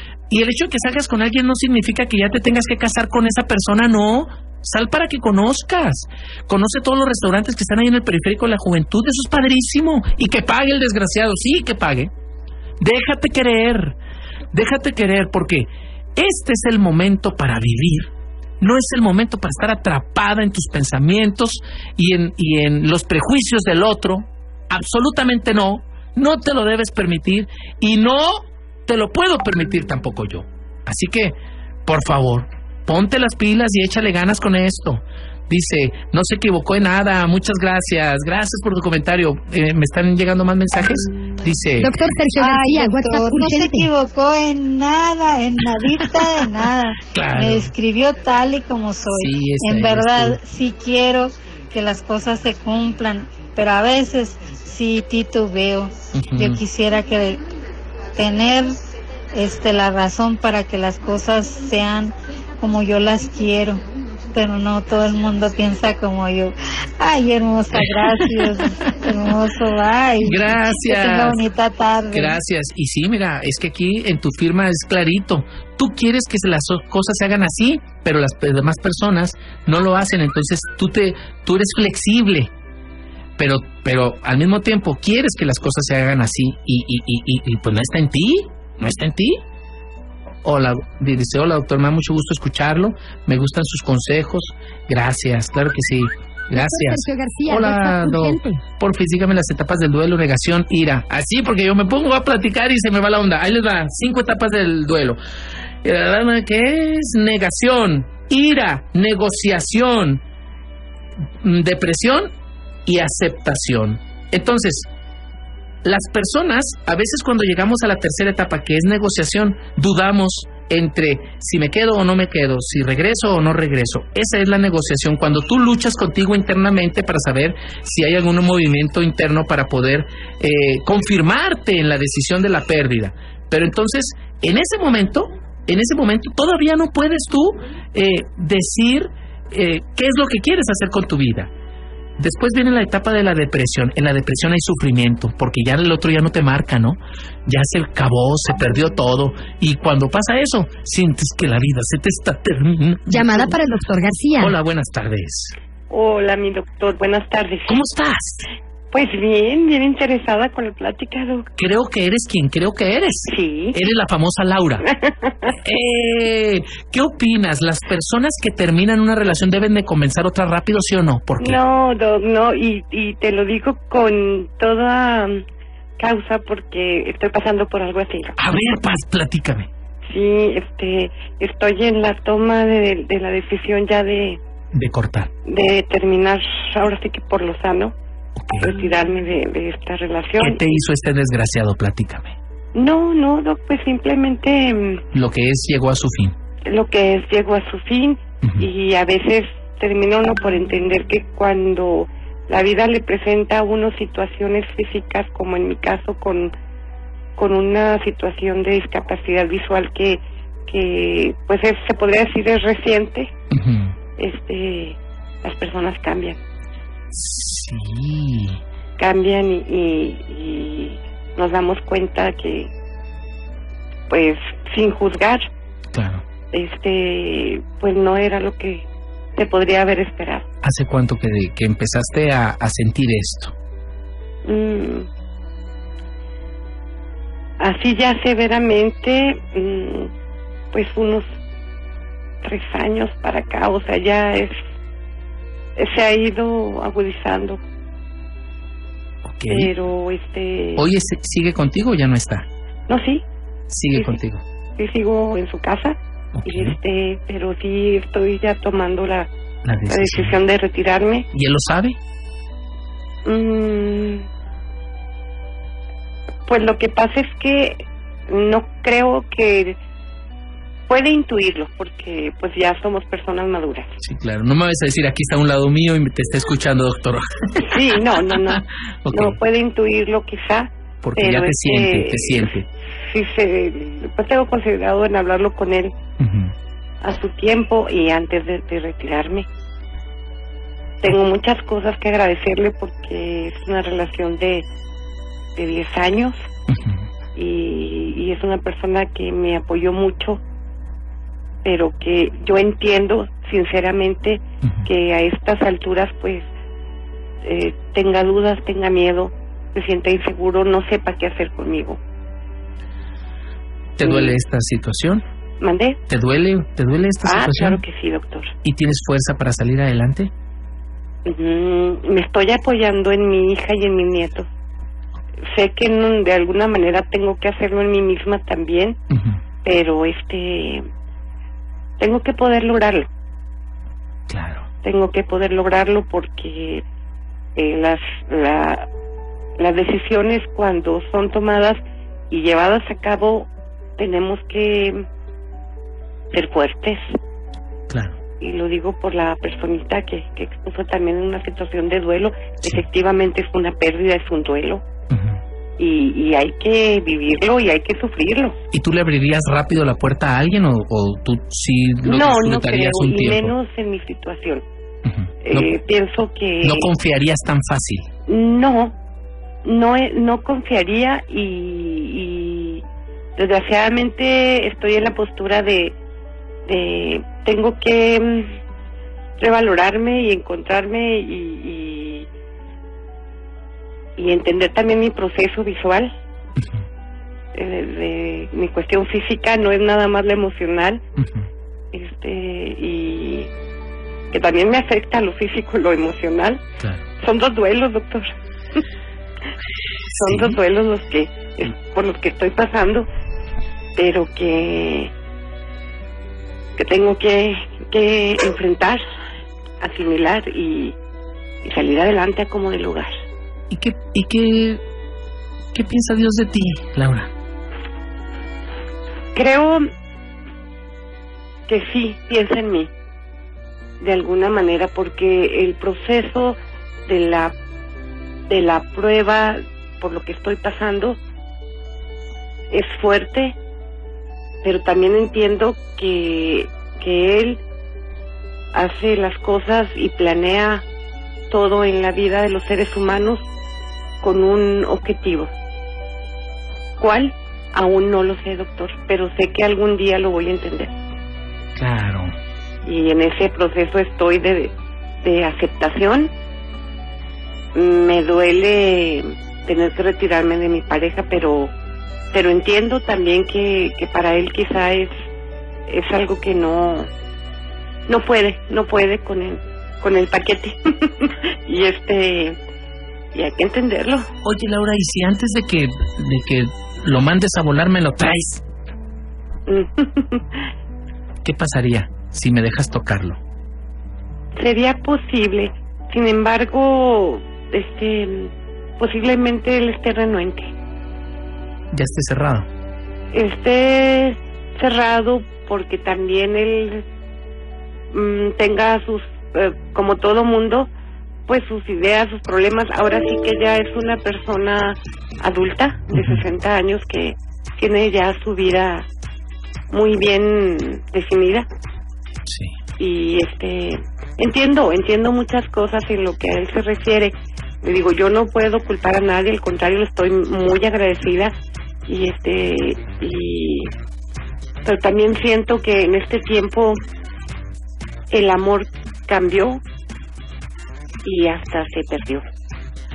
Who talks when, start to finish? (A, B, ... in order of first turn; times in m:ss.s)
0:00.3-0:12.1 A
0:12.8-0:14.0 A
0:14.5-0:31.3 A
0:31.8-0:41.9 A
0:41.8-0:43.9 B
0:42.4-0:57.4 C
0:47.1-0:47.7 A
0:49.1-0:50.4 A
0:56.1-0:56.6 A
0:58.1-0:58.8 C
0:59.3-1:03.8 C
1:04.3-1:12.4 C
1:07.8-1:08.6 A
1:10.2-1:11.4 A
1:12.1-1:22.5 A
1:23.4-1:29.4 A
1:30.4-1:45.2 A
1:36.5-1:38.6 B
1:45.8-1:50.2 A
1:51.4-1:52.3 A
1:52.8-1:54.9 A
1:55.8-2:21.5 A
2:22.2-2:33.6 A
2:33.1-2:34.5 B
2:34.4-2:35.6 A
2:35.9-2:37.8 D
2:37.7-2:38.4 A
2:38.9-2:41.5 D
2:41.6-2:44.9 A
2:43.3-2:43.8 D
2:44.9-2:45.3 D
2:45.6-2:51.6 A
2:51.4-2:55.4 D
2:56.0-2:58.4 D
2:58.4-2:59.7 A
3:00.1-3:04.4 D
3:04.7-3:05.3 A
3:05.4-3:07.9 D
3:08.4-3:08.7 A
3:08.6-3:10.7 D
3:10.4-3:12.3 A
3:12.7-3:15.0 D
3:15.1-3:16.3 A
3:16.6-3:26.5 D
3:27.4-3:33.3 D
3:33.5-3:33.9 A
3:34.2-3:36.4 D
3:37.1-3:38.6 A
3:39.0-3:42.7 D
3:44.1-3:45.4 D
3:45.9-3:46.2 A
3:46.5-3:48.8 D
3:49.4-3:50.4 D
3:50.6-3:53.5 A
3:54.4-3:55.1 D
3:57.6-4:00.1 D
4:00.7-4:01.3 D
4:02.4-4:04.6 D
4:05.8-4:07.6 D
4:09.2-4:09.7 A
4:09.5-4:10.9 D
4:10.8-4:12.4 A
4:12.9-4:13.2 D
4:13.7-4:14.4 A
4:14.8-4:19.3 D
4:16.4-4:16.8 A
4:19.6-4:20.4 A
4:19.9-4:21.3 D
4:21.3-4:22.0 A
4:23.2-4:24.2 D
4:26.5-4:29.8 D
4:30.9-4:33.9 D
4:34.0-4:37.8 A
4:37.6-4:42.5 D
4:38.5-4:39.4 A
4:41.0-4:42.7 A
4:43.1-4:45.9 D
4:46.2-4:46.5 A
4:47.0-4:49.4 D
4:51.0-4:54.6 D
4:55.6-4:56.4 D
4:56.7-4:57.0 A
4:57.4-5:00.4 D
5:01.6-5:06.5 D
5:07.4-5:12.0 D
5:14.0-5:15.2 A
5:14.0-5:14.4 D
5:15.6-5:16.0 D
5:16.1-5:17.8 A
5:17.2-5:18.5 D
5:18.6-5:20.3 A
5:21.2-5:24.5 D
5:25.5-5:29.0 D
5:29.1-5:29.4 A
5:29.6-5:30.8 D
5:32.0-5:33.1 D
5:34.3-5:34.7 A
5:34.8-5:36.8 D
5:37.6-5:38.9 D
5:39.6-5:45.0 D
5:46.3-5:47.0 D
5:47.9-5:48.2 A
5:48.4-5:54.8 D
5:55.1-5:55.4 A
5:55.8-5:58.6 D
5:58.7-6:03.5 A
6:02.0-6:04.6 D
6:05.1-6:05.7 A
6:05.4-6:06.9 D
6:06.6-6:08.1 A
6:08.3-6:09.0 D
6:09.6-6:12.8 D
6:13.4-6:15.9 D
6:16.7-6:18.6 D
6:19.4-6:22.3 D
6:24.2-6:26.1 D
6:27.5-6:31.0 D
6:31.2-6:31.4 A
6:31.9-6:33.5 D
6:34.3-6:36.6 D
6:37.2-6:38.3 D
6:40.2-6:40.6 A
6:40.2-6:43.1 D
6:44.0-6:45.1 D
6:46.8-6:49.0 D
6:49.8-6:51.0 D
6:51.6-6:53.1 D
6:53.7-6:54.8 A
6:55.7-6:57.3 A
6:59.3-6:59.8 D
7:01.7-7:02.9 D
7:04.0-7:07.5 D
7:08.5-7:11.2 D
7:12.7-7:13.6 D
7:14.6-7:17.6 D
7:18.7-7:20.8 D
7:21.5-7:23.4 D
7:24.2-7:25.5 D
7:27.0-7:30.9 D
7:31.8-7:32.3 A
7:32.8-7:36.3 D
7:37.7-7:41.7 D
7:42.3-7:45.1 D
7:45.9-7:47.1 D
7:48.1-7:52.6 D
7:53.3-7:54.3 D
7:54.4-7:58.6 A
7:59.7-8:00.6 D
8:01.4-8:03.4 A
8:04.6-8:10.7 D
8:11.9-8:12.7 A
8:13.3-8:17.0 D
8:18.1-8:20.9 D
8:21.5-8:29.0 D
8:26.1-8:26.4 A
8:29.9-8:31.7 D
8:32.5-8:32.7 A
8:33.0-8:41.5 D
8:42.1-8:43.9 D
8:44.8-8:47.0 D
8:48.3-8:49.8 D
8:51.2-8:52.4 D